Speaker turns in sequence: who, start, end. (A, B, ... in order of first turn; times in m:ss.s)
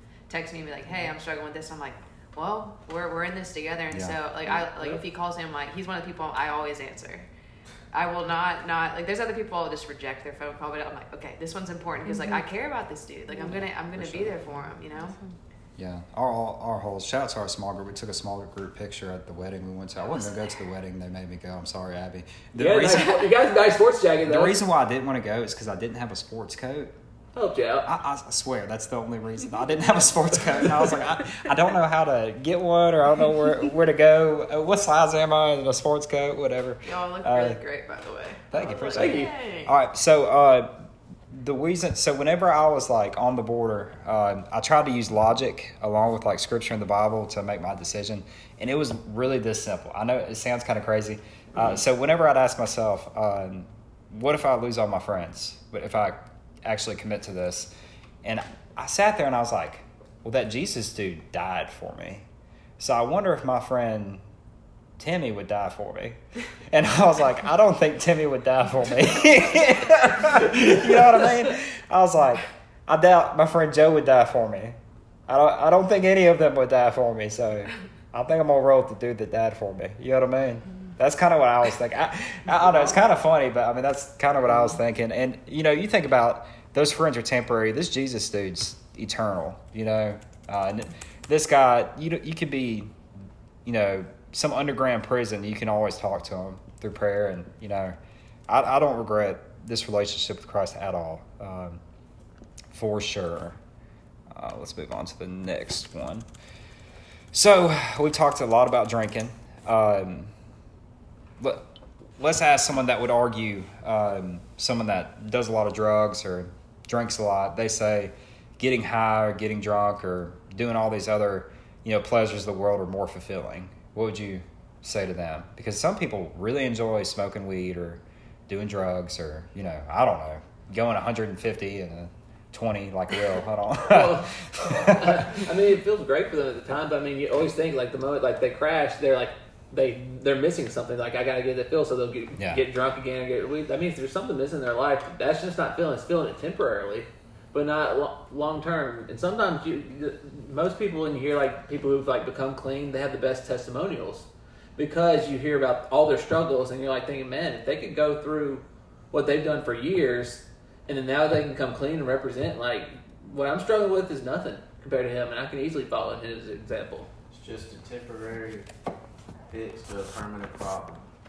0:00.3-0:07.3 A
0:03.9-0:04.2 B
0:07.9-0:15.2 A
0:13.4-0:14.4 B
0:15.8-0:23.3 B
0:20.1-0:20.4 A
0:22.6-0:24.6 C
0:24.2-0:27.0 B
0:27.3-0:27.9 C
0:27.8-0:37.6 B
0:36.8-0:39.7 A
0:38.5-0:57.7 B
0:38.9-0:39.6 C
0:58.2-1:02.3 B
1:02.8-1:04.2 B
1:05.0-1:14.8 B
1:15.3-1:33.0 B
1:33.6-1:38.0 B
1:38.5-1:41.8 B
1:42.7-1:43.6 B
1:44.3-1:46.3 B
1:47.3-1:50.3 B
1:51.4-2:15.4 B
2:13.8-2:47.1 C
2:47.3-2:48.7 D
2:49.5-2:51.1 D